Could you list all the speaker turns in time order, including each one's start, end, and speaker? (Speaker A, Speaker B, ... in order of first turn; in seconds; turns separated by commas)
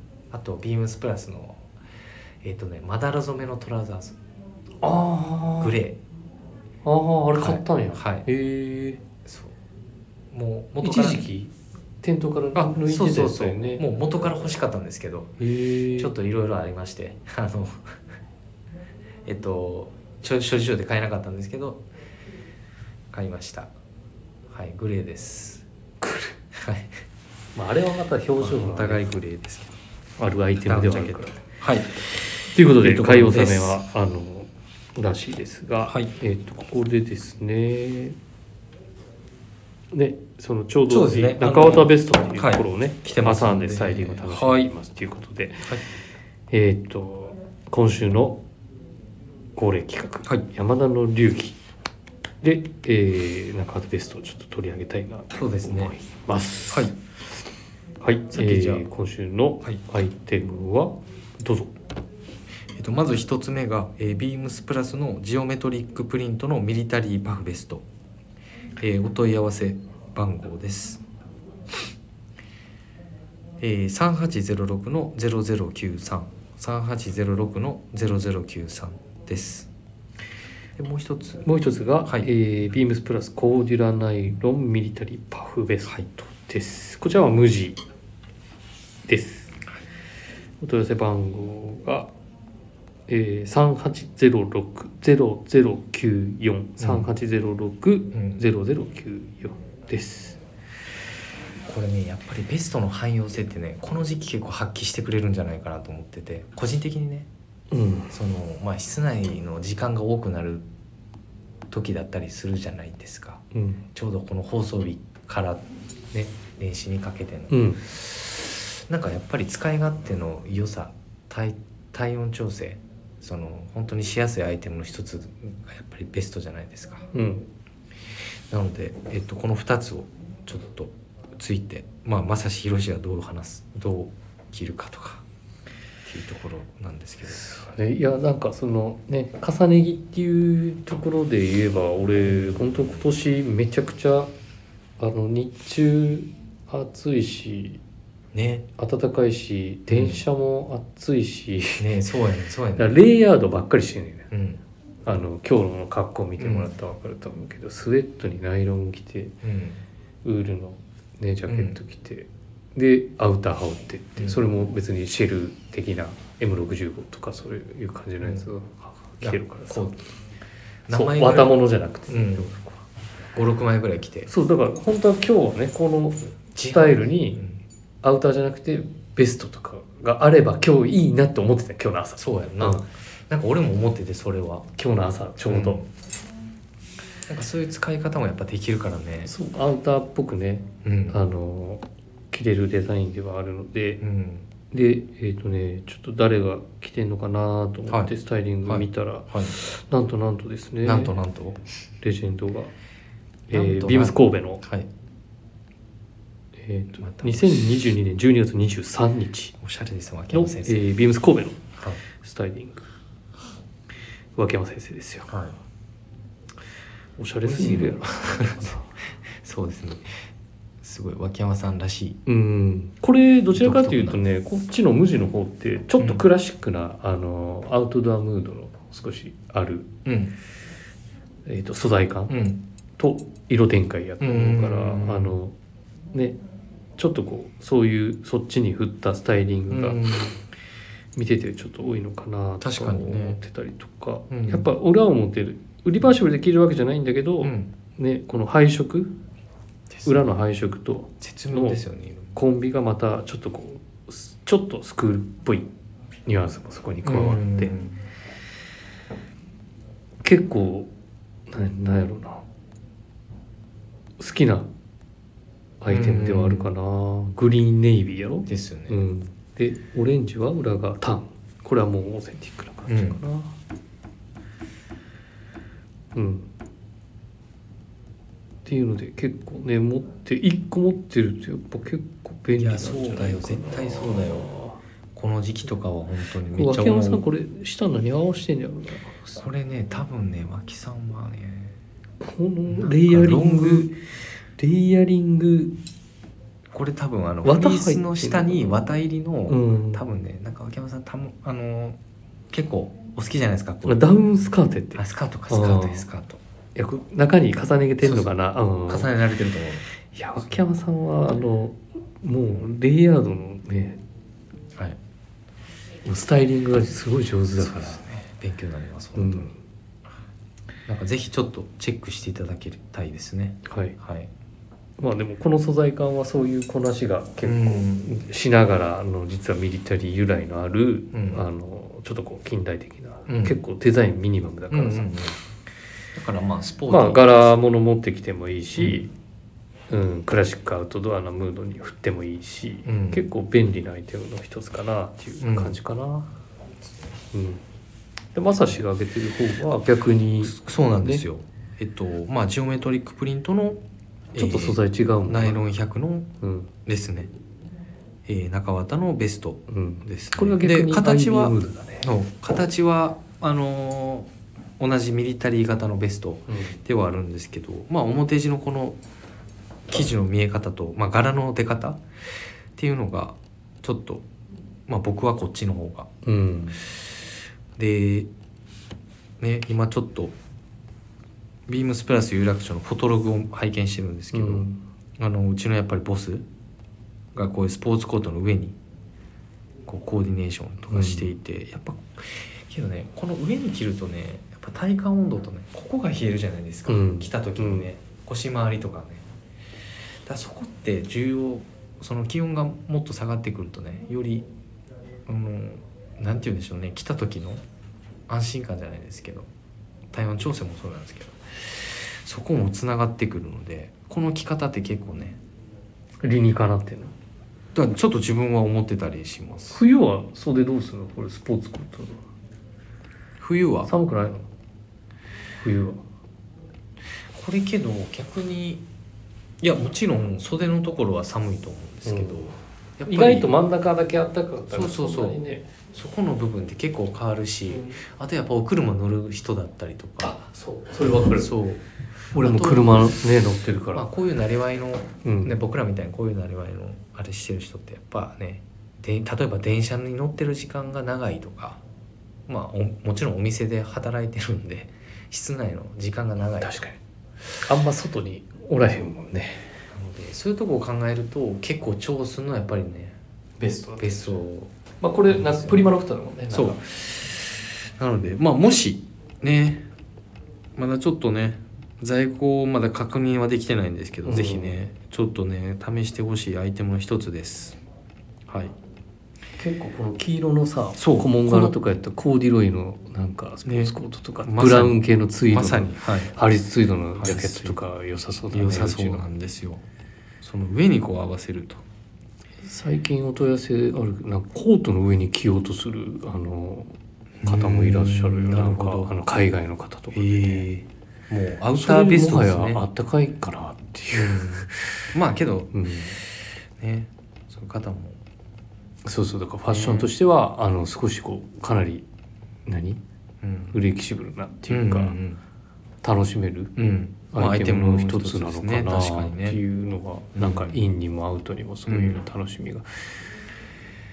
Speaker A: 0.3-1.7, Speaker A: 2.4-4.2, Speaker B: 4.8-5.8, Speaker A: 5.6-6.0, Speaker B: 6.8-9.0, Speaker A: 7.3-8.3, Speaker A: 9.2-9.6, Speaker A: 10.3-11.2, Speaker B: 10.8-13.8, Speaker A: 12.5-15.3, Speaker B: 15.4-16.1, Speaker A: 15.9-17.9, Speaker A: 19.2-21.8, Speaker A: 23.1-23.7, Speaker A: 24.5-25.6, Speaker B: 26.0-26.3, Speaker A: 26.5-26.9, Speaker B: 27.5-29.1, Speaker A: 28.4-29.8, Speaker B: 30.2-31.3, Speaker A: 30.6-33.8, Speaker B: 32.5-38.2, Speaker A: 35.9-36.1, Speaker B: 39.9-45.7, Speaker A: 40.9-44.7, Speaker B: 46.5-48.4, Speaker B: 49.5-51.6, Speaker B: 52.4-56.9, Speaker A: 55.3-56.0, Speaker B: 58.0-61.7, Speaker A: 58.3-58.9, Speaker A: 62.7-67.8, Speaker A: 68.8-71.0, Speaker A: 73.6-79.7, Speaker A: 80.8-81.4, Speaker B: 81.4-87.8, Speaker B: 89.0-89.5, Speaker B: 90.6-92.1, Speaker B: 93.1-100.4, Speaker A: 96.8-97.1, Speaker A: 98.1-98.4, Speaker A: 101.6-107.3, Speaker B: 107.7-108.1, Speaker A: 108.1-110.6, Speaker A: 111.7-117.9, Speaker B: 113.5-113.8, Speaker B: 117.5-117.8, Speaker A: 118.9-127.1, Speaker B: 127.1-127.5, Speaker A: 128.5-135.2, Speaker A: 136.1-137.5, Speaker B: 137.3-144.3, Speaker A: 142.5-142.8, Speaker B: 145.0-147.8, Speaker A: 148.3-148.6, Speaker B: 148.8-151.9, Speaker A: 149.9-150.2, Speaker A: 151.8-153.0, Speaker B: 152.8-154.3, Speaker A: 154.3-154.6, Speaker B: 155.1-159.3, Speaker A: 156.4-156.7, Speaker A: 159.4-159.8, Speaker B: 160.2-169.9, Speaker A: 161.5-161.8, Speaker A: 169.2-170.0, Speaker A: 170.9-172.5, Speaker B: 170.9-172.8, Speaker A: 173.3-174.3, Speaker B: 174.3-177.4, Speaker A: 176.5-177.6, Speaker B: 178.0-182.8, Speaker A: 182.2-184.7, Speaker B: 184.8-185.8, Speaker A: 185.4-185.8, Speaker A: 187.3-189.3, Speaker B: 189.2-194.0, Speaker A: 190.8-191.2, Speaker A: 194.0-194.4, Speaker B: 194.7-201.1, Speaker A: 198.6-199.6, Speaker A: 200.8-201.6, Speaker B: 202.0-202.7, Speaker B: 203.5-204.6, Speaker A: 203.5-204.9, Speaker B: 206.6-209.5, Speaker A: 207.0-207.7, Speaker A: 209.6-210.9, Speaker B: 210.3-212.9, Speaker A: 211.8-212.0, Speaker B: 214.3-215.3, Speaker A: 215.3-215.6, Speaker B: 217.2-218.9, Speaker A: 217.4-218.8, Speaker A: 219.3-220.2, Speaker A: 220.8-222.2, Speaker B: 222.2-229.9, Speaker A: 223.5-224.2, Speaker A: 230.0-230.3, Speaker B: 231.4-232.3, Speaker A: 232.3-232.6, Speaker B: 233.0-235.5, Speaker A: 234.2-235.4, Speaker B: 236.1-236.4, Speaker B: 237.0-240.0, Speaker A: 239.7-240.4, Speaker B: 241.1-249.1, Speaker A: 242.6-243.4, Speaker A: 244.3-244.7, Speaker A: 247.4-247.7, Speaker A: 249.9-250.2, Speaker B: 250.0-251.8, Speaker A: 251.2-252.3, Speaker B: 252.3-255.7, Speaker B: 256.2-257.7, Speaker A: 257.0-258.0, Speaker B: 260.2-260.9, Speaker B: 261.5-262.4, Speaker B: 264.2-264.7, Speaker B: 265.8-273.5, Speaker A: 265.9-266.7, Speaker A: 268.4-269.0, Speaker A: 272.9-273.2, Speaker B: 276.1-276.5, Speaker B: 278.6-284.8, Speaker A: 282.6-284.5, Speaker A: 285.1-287.2, Speaker B: 286.5-289.3, Speaker A: 289.3-291.8, Speaker B: 292.2-294.0, Speaker A: 292.7-293.9, Speaker B: 294.6-295.7, Speaker A: 296.7-302.0, Speaker B: 297.4-298.8, Speaker B: 299.5-300.0, Speaker A: 302.5-304.0, Speaker B: 303.8-306.1, Speaker A: 304.9-306.4, Speaker B: 306.7-309.1, Speaker A: 308.0-308.3, Speaker A: 308.9-309.9, Speaker B: 310.1-314.0, Speaker B: 316.0-318.0, Speaker A: 317.6-319.6, Speaker B: 319.1-319.5, Speaker A: 320.9-324.3, Speaker B: 323.6-323.9, Speaker B: 325.0-335.1, Speaker A: 327.4-328.2, Speaker A: 331.1-331.5, Speaker A: 333.3-333.6, Speaker A: 334.7-335.4, Speaker A: 336.1-337.5, Speaker B: 336.9-339.1, Speaker A: 338.8-339.0, Speaker B: 339.9-346.3, Speaker A: 342.9-343.2, Speaker A: 345.4-345.8, Speaker B: 347.3-347.6, Speaker B: 348.3-351.2, Speaker A: 350.4-353.8, Speaker B: 354.3-355.6, Speaker A: 354.3-356.3, Speaker B: 356.4-356.7, Speaker A: 356.9-357.3, Speaker A: 358.3-369.0, Speaker B: 359.7-362.1, Speaker B: 366.5-366.8, Speaker A: 369.9-372.0, Speaker A: 372.8-374.2, Speaker A: 374.9-376.1, Speaker B: 376.2-376.8, Speaker A: 377.8-378.3, Speaker A: 379.4-380.3, Speaker A: 381.7-384.6, Speaker B: 384.3-384.8, Speaker A: 385.2-386.4, Speaker A: 387.3-388.8, Speaker A: 389.9-399.2, Speaker B: 390.9-391.3, Speaker B: 396.9-397.9, Speaker A: 400.2-404.5, Speaker A: 405.3-407.6, Speaker A: 408.3-409.5, Speaker A: 410.1-415.4, Speaker B: 416.2-417.1, Speaker A: 417.7-419.8, Speaker B: 419.7-422.2, Speaker A: 423.4-423.9, Speaker B: 423.9-424.4, Speaker B: 425.6-426.0, Speaker A: 427.3-428.8, Speaker A: 429.6-433.5, Speaker B: 432.1-432.5, Speaker B: 433.0-435.7, Speaker A: 434.7-440.4, Speaker B: 437.7-438.0, Speaker B: 440.2-441.5, Speaker A: 441.3-443.2, Speaker B: 442.3-444.1, Speaker A: 443.9-451.8, Speaker B: 445.2-445.6, Speaker A: 452.5-456.8, Speaker B: 456.6-457.0, Speaker B: 457.6-459.7, Speaker A: 459.9-463.2, Speaker B: 463.6-464.4, Speaker A: 464.0-464.7, Speaker B: 465.0-466.8, Speaker A: 465.3-465.9, Speaker A: 466.5-469.9, Speaker A: 470.8-477.8, Speaker B: 474.2-474.8, Speaker B: 479.6-489.2, Speaker A: 481.0-481.8, Speaker A: 483.6-485.0, Speaker A: 485.5-486.3, Speaker A: 487.1-487.8, Speaker A: 488.5-489.8, Speaker A: 490.4-491.8, Speaker B: 492.6-496.9, Speaker A: 497.4-499.1, Speaker B: 497.4-500.6, Speaker A: 500.1-502.8, Speaker B: 501.8-505.1, Speaker A: 504.1-506.2, Speaker B: 505.7-506.2, Speaker A: 506.8-508.2, Speaker B: 509.0-512.1, Speaker A: 509.7-510.1, Speaker B: 512.6-513.0, Speaker A: 513.4-513.8, Speaker B: 513.7-515.1, Speaker A: 514.7-515.4, Speaker B: 516.0-516.7, Speaker A: 516.8-519.6, Speaker B: 517.3-523.2, Speaker A: 520.4-520.8, Speaker A: 521.9-522.2